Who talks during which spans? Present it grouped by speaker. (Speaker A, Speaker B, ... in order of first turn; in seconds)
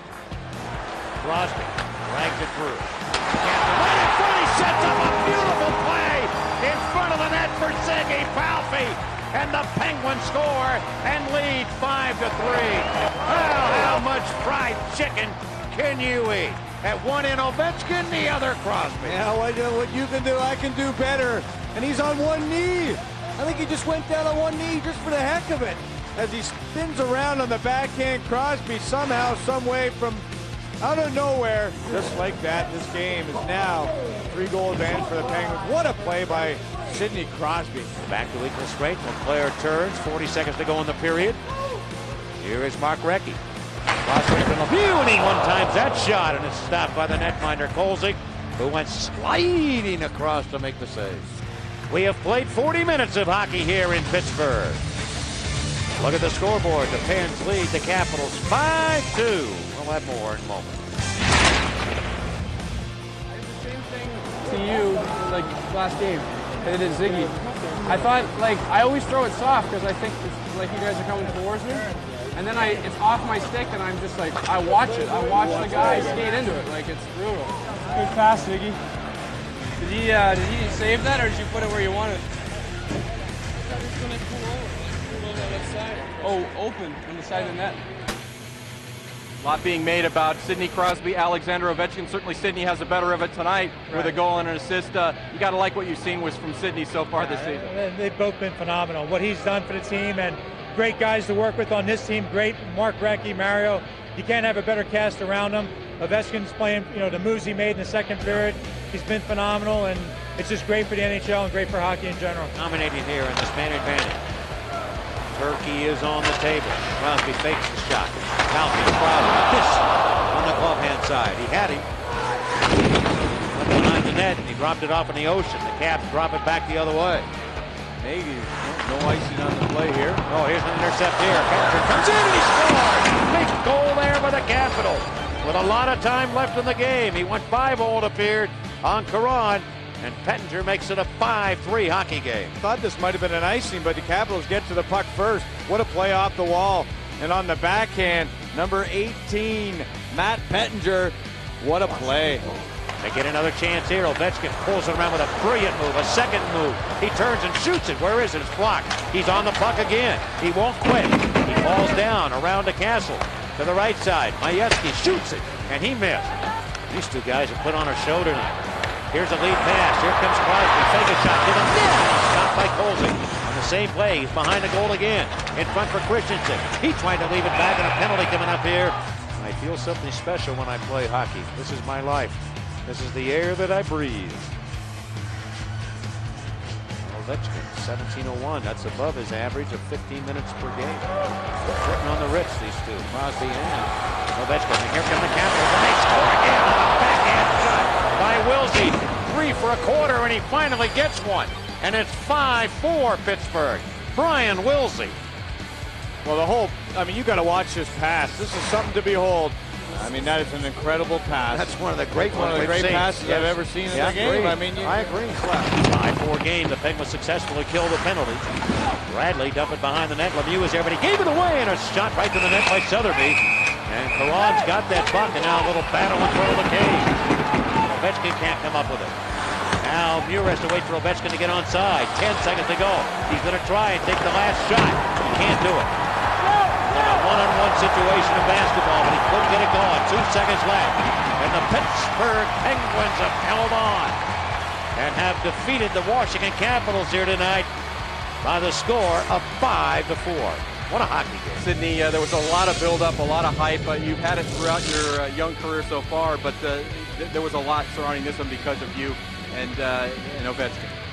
Speaker A: 1.2-19.2, 38.0-41.4, 42.4-43.4, 44.0-51.4, 51.9-54.8, 56.0-60.8, 112.5-114.2, 115.3-121.9, 123.5-127.3, 130.3-142.5, 153.0-166.4, 166.9-184.5, 187.0-191.1, 191.6-205.2, 211.5-218.5, 219.1-227.2, 227.8-229.2, 229.8-235.9, 236.9-244.2, 244.9-247.7, 248.4-251.6
Speaker B: 19.0-30.3, 30.8-37.9, 128.0-130.2, 142.6-152.5, 206.2-215.1
Speaker C: 63.4-78.8, 79.8-82.2, 84.0-84.4, 85.3-87.8
Speaker D: 89.4-97.6, 251.6-260.9
Speaker E: 97.1-112.5